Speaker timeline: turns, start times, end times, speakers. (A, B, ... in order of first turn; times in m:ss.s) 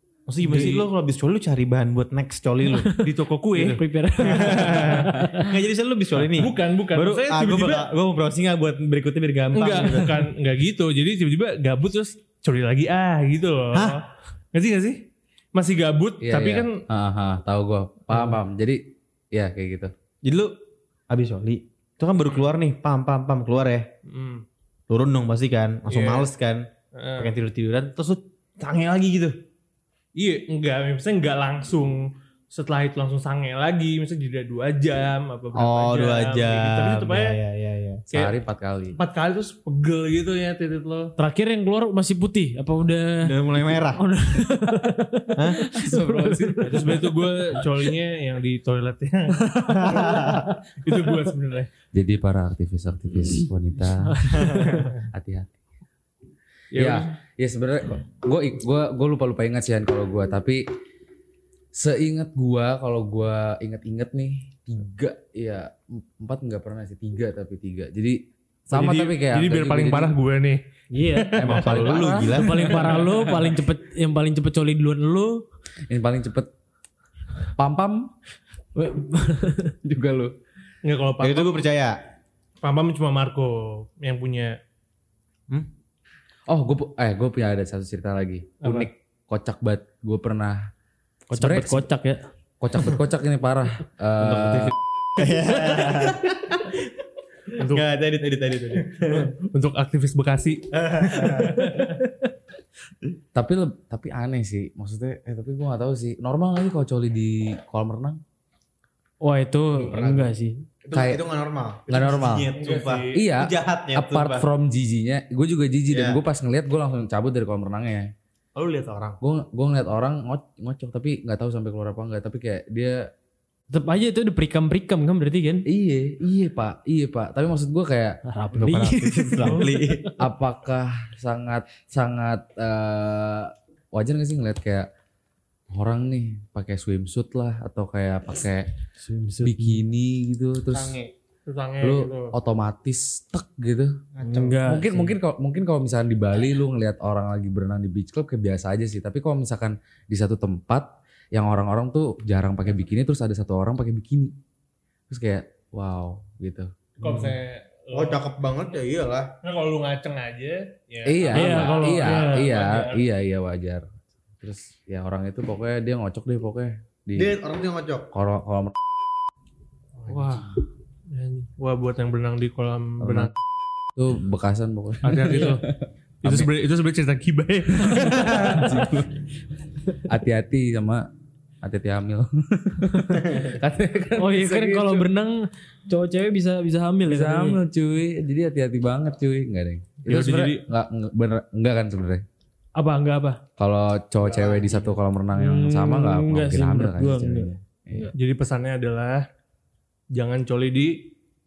0:00.3-0:02.9 A
0:00.4-0:00.9 B
0:03.0-0:05.1 B
0:03.6-0:04.9 A
0:03.6-0:05.4 C
0:05.5-0:10.3 A
0:06.2-0:07.9 B
0:09.5-0:16.8 B
0:13.7-0:14.0 A
0:16.2-0:18.8 D
0:19.3-0:19.9 D
0:20.2-0:20.5 A
0:21.1-0:23.9 A
0:24.1-0:24.4 B
0:24.9-0:26.6 A
0:25.9-0:26.3 B
0:27.0-0:27.4 B
0:27.2-0:29.4 A
0:30.2-0:37.4 B
0:35.6-0:38.0 A
0:38.1-0:39.0 D
0:38.1-0:38.4 B
0:39.0-0:41.1 B
0:41.2-0:47.0 C
0:43.2-0:44.0 A
0:45.8-0:46.9 D
0:46.6-0:51.7 B
0:49.9-0:50.4 C
0:49.9-0:50.4 A
0:51.9-0:55.5 D
0:54.1-0:54.8 C
0:54.6-0:54.9 B
0:56.7-0:57.1 B
0:56.8-1:00.6 D
1:01.7-1:08.2 D
1:08.7-1:10.2 D
1:08.7-1:12.9 B
1:10.9-1:11.4 C
1:11.3-1:13.6 D
1:11.4-1:13.0 A
1:12.3-1:15.4 C
1:15.9-1:16.5 D
1:17.6-1:18.1 D
1:18.8-1:19.7 C
1:19.8-1:20.3 D
1:20.8-1:21.7 B
1:21.2-1:22.0 A
1:22.6-1:24.6 B
1:26.5-1:30.6 D
1:28.6-1:28.9 B
1:31.3-1:32.2 C
1:31.3-1:31.9 D
1:32.6-1:34.7 D
1:34.2-1:36.8 A
1:37.6-1:37.9 B
1:37.7-1:39.3 A
1:39.1-1:41.9 B
1:40.8-1:41.6 A
1:43.4-1:48.2 D
1:49.2-1:50.6 C
1:49.8-1:50.3 A
1:50.8-1:54.5 A
1:50.9-1:51.3 D
1:51.9-1:52.5 D
1:52.6-1:53.2 B
1:53.1-1:58.1 D
1:55.9-1:56.2 A
1:58.6-1:59.2 A
1:59.2-2:03.1 D
2:03.7-2:05.7 C
2:05.7-2:08.2 D
2:08.2-2:10.1 C
2:08.5-2:10.1 A
2:10.2-2:14.9 D
2:15.7-2:18.7 D
2:19.0-2:19.8 C
2:19.4-2:21.0 D
2:20.7-2:21.1 A
2:21.5-2:22.3 B
2:21.8-2:23.9 D
2:24.2-2:24.6 A
2:24.2-2:25.2 C
2:24.6-2:34.3 D
2:35.1-2:36.7 D
2:37.0-2:38.2 B
2:37.9-2:39.3 A
2:39.4-2:43.0 B
2:41.0-2:43.8 D
2:41.3-2:42.5 C
2:44.4-2:47.3 D
2:47.2-2:48.1 A
2:48.1-2:48.8 D
2:50.0-2:50.5 B
2:50.2-2:50.6 D
2:51.1-2:53.3 B
2:53.0-2:53.3 D
2:54.0-2:56.5 D
2:55.0-2:55.6 B
2:56.2-2:58.9 B
2:57.8-2:59.1 D
3:00.1-3:01.0 D
3:01.6-3:05.1 D
3:04.2-3:07.6 C
3:07.1-3:12.2 D
3:10.1-3:10.6 B
3:12.8-3:13.4 C
3:13.6-3:18.1 D
3:14.2-3:15.0 A
3:15.3-3:18.1 C
3:18.1-3:19.3 B
3:20.1-3:21.1 B